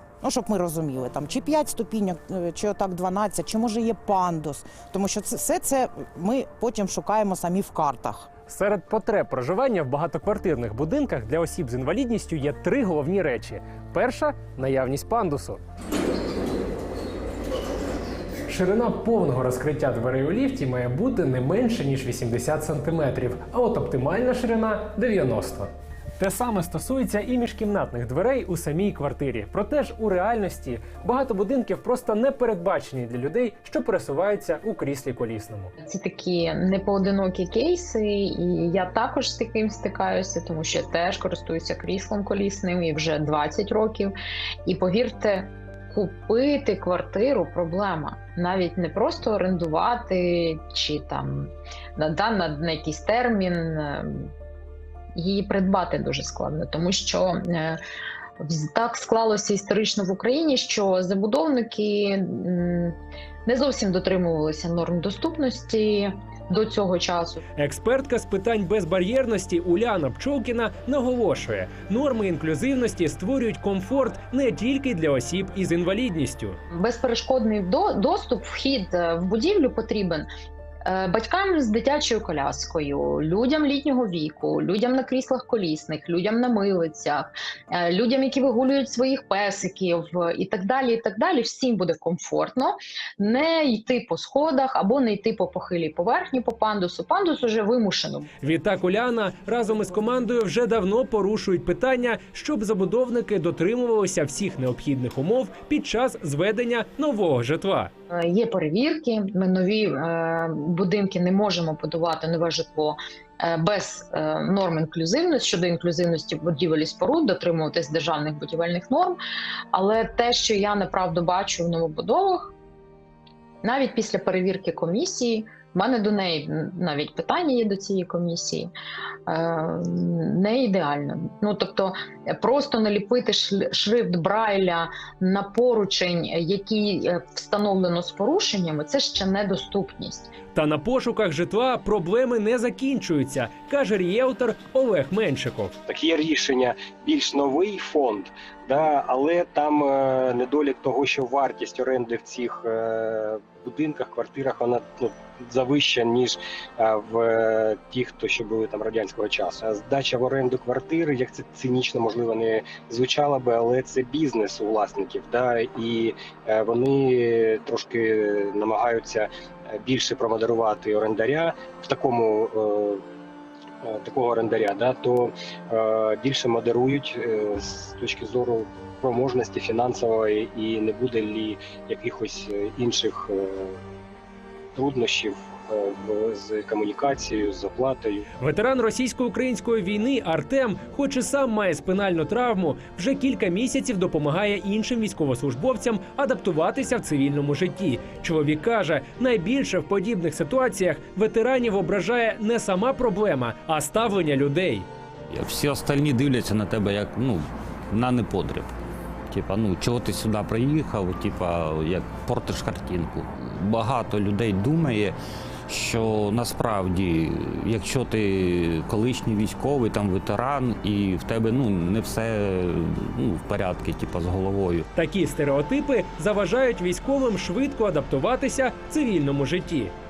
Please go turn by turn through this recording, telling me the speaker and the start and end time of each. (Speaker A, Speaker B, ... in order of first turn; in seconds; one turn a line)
Speaker A: 0.2-8.3
Speaker B: 8.5-15.6
Speaker B: 18.5-35.7
Speaker C: 35.8-44.1
Speaker C: 44.6-54.3
Speaker C: 55.1-57.8
Speaker C: 58.4-67.4
Speaker B: 67.6-76.6
Speaker C: 76.7-80.2
Speaker C: 80.8-98.3
Speaker B: 98.4-107.9
Speaker C: 108.1-119.2
Speaker C: 119.7-122.5
Speaker C: 123.6-128.7
Speaker C: 129.3-140.3
Speaker B: 140.5-145.7
Speaker D: 145.9-173.0
Speaker D: 173.8-183.8
Speaker D: 184.8-188.2
Speaker B: 188.4-204.9
Speaker E: 205.3-208.7
Speaker E: 209.3-215.2
Speaker E: 215.7-224.8
Speaker B: 224.9-229.9